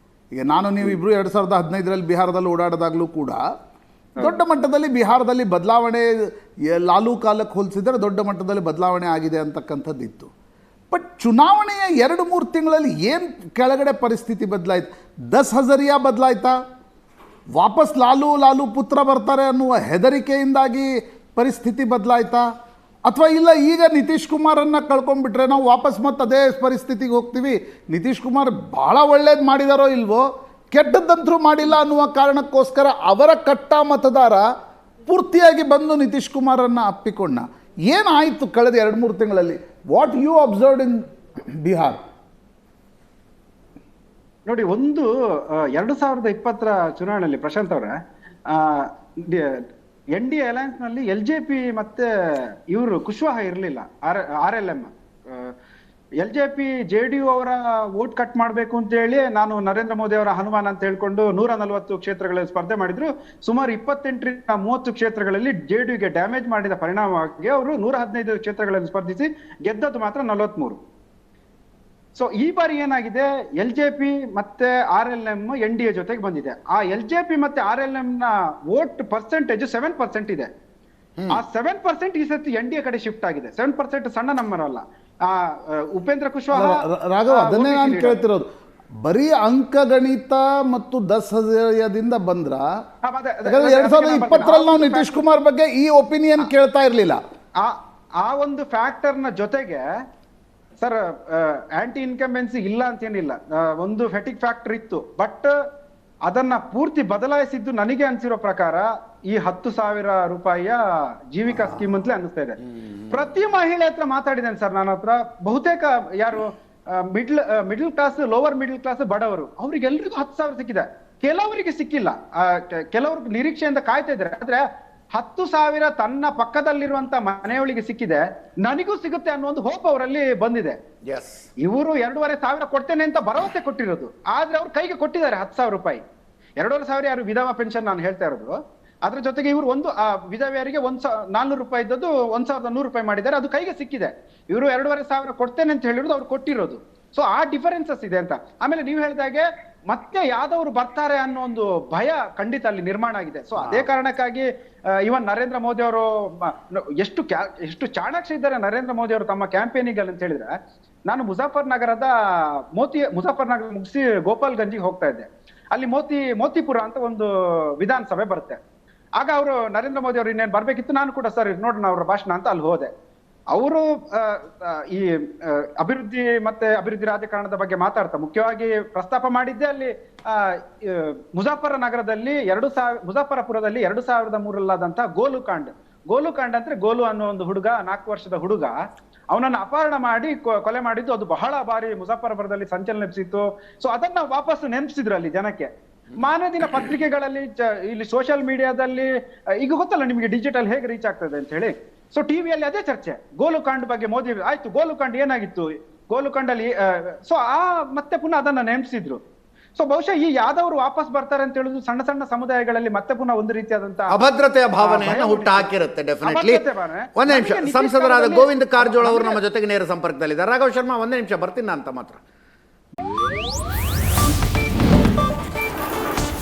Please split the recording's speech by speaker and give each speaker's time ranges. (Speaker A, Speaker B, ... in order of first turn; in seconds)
Speaker A: 0.3-3.4, 4.2-10.3, 10.9-16.6, 17.5-22.4, 23.1-34.5, 35.1-41.0, 41.5-42.0, 86.5-88.5, 89.0-92.7, 93.5-97.2
Speaker B: 44.5-45.1, 45.7-47.9, 48.5-49.5, 50.1-52.1, 52.7-55.5, 56.2-70.8, 72.1-80.5, 81.3-88.2, 93.0-95.2, 97.6-99.8, 100.8-105.5, 106.3-110.8, 111.3-112.6, 113.1-124.6, 125.1-130.8, 131.6-136.0, 136.6-138.5, 139.0-154.5, 155.0-160.5, 161.1-162.1, 162.8-167.3, 167.8-168.6, 169.2-172.9, 173.5-188.7, 189.3-199.1, 199.6-209.2, 209.8-214.1, 214.8-215.7, 216.2-219.4
Speaker C: 131.1-131.4, 214.1-216.6, 217.1-222.2